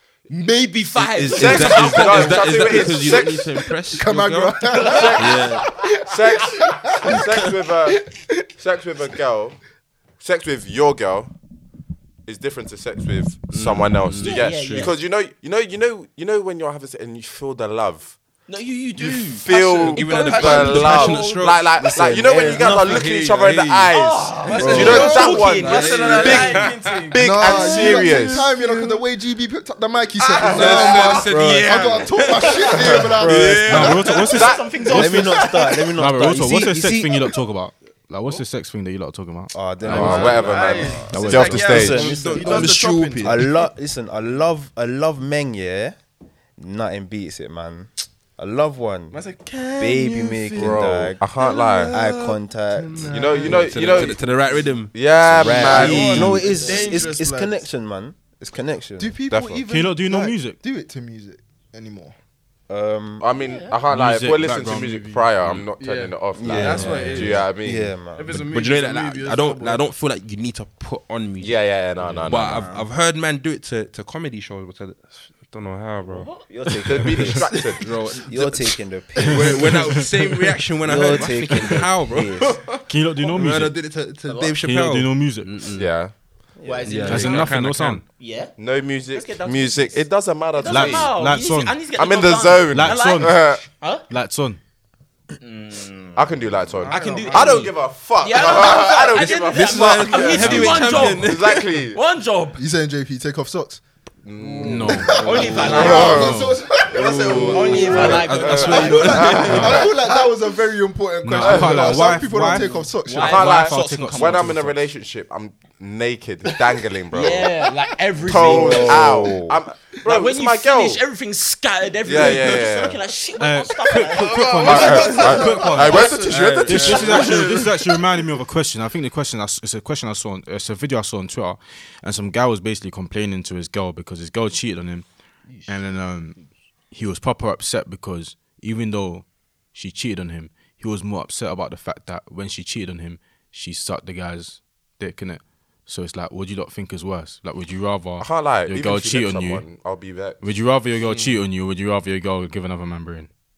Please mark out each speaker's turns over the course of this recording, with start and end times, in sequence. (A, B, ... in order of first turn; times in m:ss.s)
0:00.3-0:02.2 A
0:00.6-0:02.7 B
0:01.2-0:05.6 C
0:01.3-0:03.5 D
0:03.8-0:08.5 A
0:04.8-0:05.4 B
0:04.9-0:08.0 D
0:08.6-0:09.6 D
0:10.2-0:11.3 D
0:12.2-0:18.1 D
0:13.5-0:14.9 C
0:14.2-0:14.9 B
0:18.5-0:21.0 B
0:19.4-0:28.5 D
0:19.5-0:21.6 E
0:19.8-0:21.7 C
0:21.7-0:23.2 F
0:22.6-0:23.9 C
0:23.9-0:26.7 B
0:24.4-0:29.0 E
0:24.6-0:25.1 C
0:24.7-0:25.0 A
0:25.7-0:27.1 C
0:27.2-0:34.0 A
0:30.2-0:31.4 E
0:30.4-0:34.2 C
0:33.2-0:33.6 F
0:33.6-0:34.6 G
0:34.0-0:35.9 B
0:34.2-0:34.9 D
0:34.9-0:37.2 F
0:36.0-0:40.3 G
0:39.5-0:46.0 F
0:39.8-0:43.6 E
0:39.8-0:42.1 D
0:41.1-0:42.0 G
0:41.2-0:43.7 C
0:46.6-0:49.2 F
0:49.1-0:54.6 E
0:49.8-0:51.3 F
0:50.6-0:51.9 D
0:51.9-0:53.5 F
0:53.1-0:56.4 C
0:53.1-0:54.2 D
0:54.9-0:56.4 D
0:55.3-0:59.2 F
0:55.4-0:57.7 E
0:56.4-0:57.0 B
0:59.0-1:02.2 A
0:59.3-0:59.6 D
0:59.6-1:00.6 G
1:02.7-1:03.3 F
1:03.2-1:08.0 D
1:03.4-1:03.8 B
1:03.9-1:05.6 G
1:05.8-1:07.5 E
1:06.3-1:08.4 F
1:06.5-1:07.4 C
1:08.1-1:09.8 E
1:08.3-1:25.9 C
1:11.4-1:12.6 D
1:12.3-1:12.9 B
1:16.1-1:17.5 F
1:16.8-1:17.9 D
1:18.1-1:20.0 F
1:19.2-1:20.5 G
1:20.8-1:22.6 F
1:21.5-1:21.9 G
1:22.4-1:22.8 E
1:22.9-1:23.9 G
1:24.6-1:25.6 G
1:25.7-1:26.1 D
1:26.6-1:27.1 F
1:26.6-1:27.6 B
1:26.8-1:28.0 C
1:27.0-1:28.0 G
1:28.2-1:28.5 B
1:28.6-1:31.1 D
1:29.1-1:34.0 B
1:30.6-1:31.8 G
1:31.9-1:33.6 D
1:32.7-1:33.4 G
1:34.1-1:34.6 G
1:35.4-1:42.6 B
1:36.2-1:42.0 D
1:36.8-1:37.7 E
1:39.5-1:41.7 C
1:40.4-1:41.1 G
1:42.6-1:43.8 A
1:44.2-1:46.4 D
1:44.3-1:46.1 E
1:44.6-1:45.6 G
1:44.6-1:46.0 C
1:44.9-1:47.8 A
1:45.2-1:46.3 B
1:46.1-1:46.6 G
1:46.9-1:50.4 E
1:46.9-1:49.9 C
1:47.4-1:49.4 B
1:48.3-1:49.9 D
1:48.7-1:53.4 A
1:49.4-1:49.8 G
1:51.2-1:54.8 G
1:51.4-1:52.1 D
1:52.3-1:54.5 B
1:53.2-1:57.5 D
1:57.1-1:59.2 B
1:58.2-2:01.0 D
1:58.3-1:59.6 F
2:00.0-2:05.5 B
2:02.0-2:03.0 D
2:03.4-2:15.0 G
2:04.1-2:07.8 E
2:04.6-2:07.3 D
2:06.2-2:07.7 C
2:15.5-2:15.8 E
2:15.7-2:16.4 G
2:16.9-2:29.6 G
2:28.2-2:30.4 D
2:30.4-2:33.3 G
2:31.0-2:31.4 E